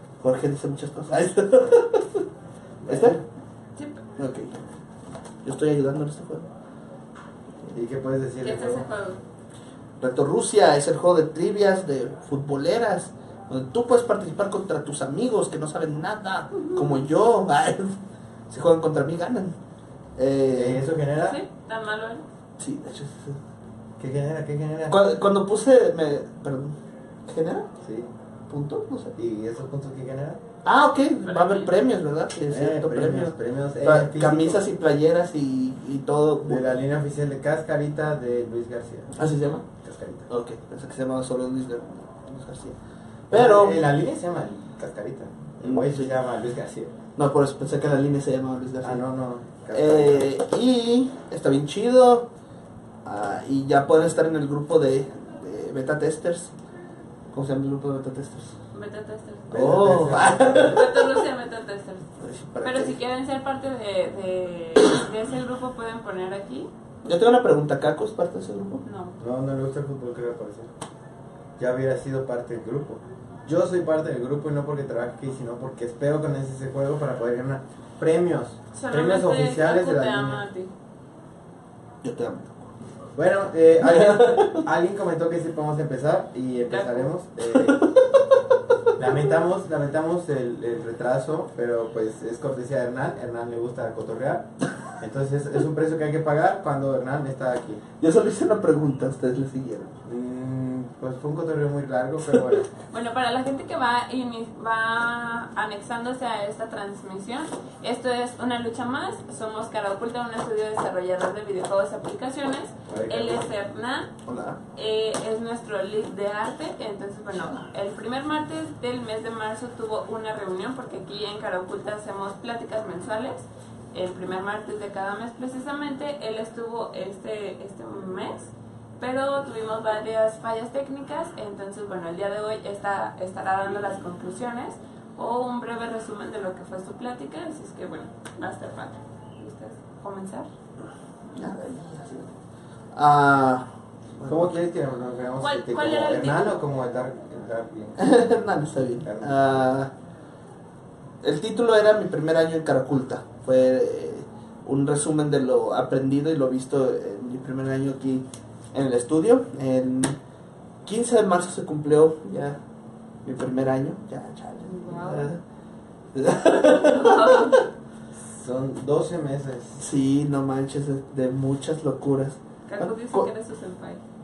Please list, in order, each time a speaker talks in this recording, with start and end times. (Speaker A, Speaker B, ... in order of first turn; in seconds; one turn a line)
Speaker A: 0.2-2.2
Speaker B: 2.8-3.2
Speaker A: 2.9-3.2
Speaker C: 3.8-4.0
Speaker A: 4.2-4.6
Speaker A: 5.4-6.5
Speaker B: 7.7-8.8
Speaker C: 8.4-9.2
Speaker A: 10.0-17.9
Speaker A: 18.5-19.5
Speaker A: 20.2-20.8
Speaker B: 20.5-21.4
Speaker C: 21.2-22.2
Speaker A: 22.6-23.4
Speaker B: 24.0-25.0
Speaker A: 24.9-26.8
Speaker A: 27.3-27.7
Speaker B: 27.8-28.1
Speaker A: 28.5-29.1
Speaker B: 29.1-30.4
Speaker A: 30.6-36.6
Speaker C: 31.2-31.7
Speaker B: 32.5-34.6
Speaker B: 36.4-39.1
Speaker A: 39.1-39.6
Speaker B: 39.8-40.3
Speaker A: 40.3-42.8
Speaker A: 43.3-43.9
Speaker B: 43.3-46.9
Speaker A: 45.6-46.1
Speaker A: 47.1-49.0
Speaker B: 48.8-50.2
Speaker A: 49.7-52.3
Speaker A: 53.0-56.5
Speaker A: 57.3-58.5
Speaker C: 58.7-59.8
Speaker B: 59.5-60.9
Speaker A: 59.5-61.1
Speaker C: 60.5-62.1
Speaker A: 62.2-63.0
Speaker C: 62.6-66.7
Speaker A: 67.0-68.8
Speaker C: 68.8-69.1
Speaker B: 69.2-70.7
Speaker B: 71.6-80.4
Speaker C: 78.7-80.7
Speaker A: 82.0-82.7
Speaker B: 83.1-87.8
Speaker A: 83.8-84.7
Speaker C: 86.7-87.1
Speaker A: 87.5-88.2
Speaker B: 89.0-97.8
Speaker A: 98.0-100.0
Speaker B: 100.0-102.7
Speaker C: 102.9-114.1
Speaker B: 112.9-113.4
Speaker A: 114.2-114.6
Speaker C: 114.7-140.5
Speaker A: 141.3-142.3
Speaker A: 142.9-144.5
Speaker B: 144.2-148.1
Speaker C: 145.4-146.6
Speaker A: 148.0-149.9
Speaker B: 149.0-149.7
Speaker A: 151.2-160.2
Speaker A: 160.8-162.6
Speaker A: 163.2-165.4
Speaker C: 164.6-165.3
Speaker A: 166.1-167.6
Speaker C: 166.7-167.6
Speaker B: 168.1-169.8
Speaker A: 169.8-173.3
Speaker C: 172.7-174.0